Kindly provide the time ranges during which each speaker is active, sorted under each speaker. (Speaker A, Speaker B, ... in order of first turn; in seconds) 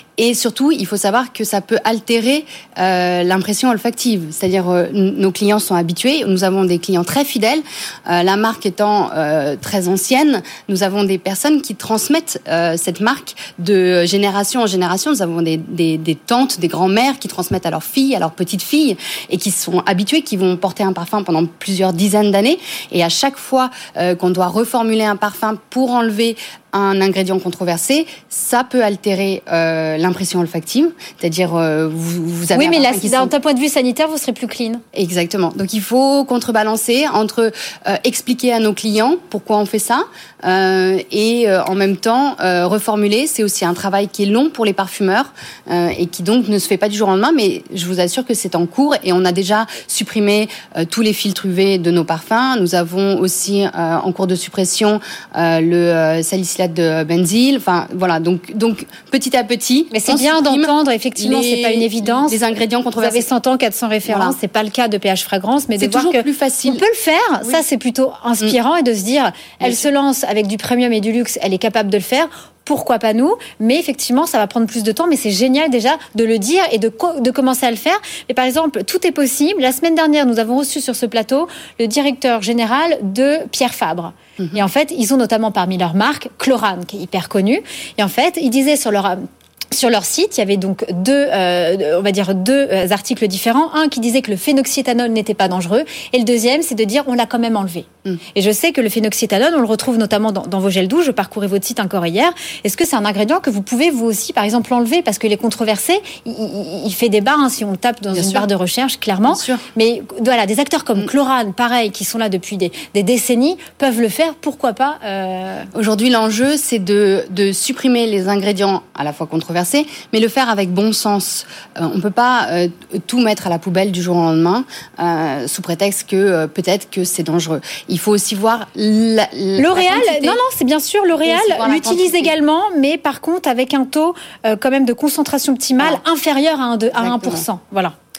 Speaker A: 0.2-33.3, 34.9-63.3, 64.1-64.4, 65.8-66.8, 69.6-69.9, 84.4-84.6, 108.1-108.5, 109.3-109.6, 115.7-130.4, 131.2-132.3, 136.9-137.5
Speaker B: 32.5-34.8, 59.9-62.4, 63.0-115.7, 129.6-137.9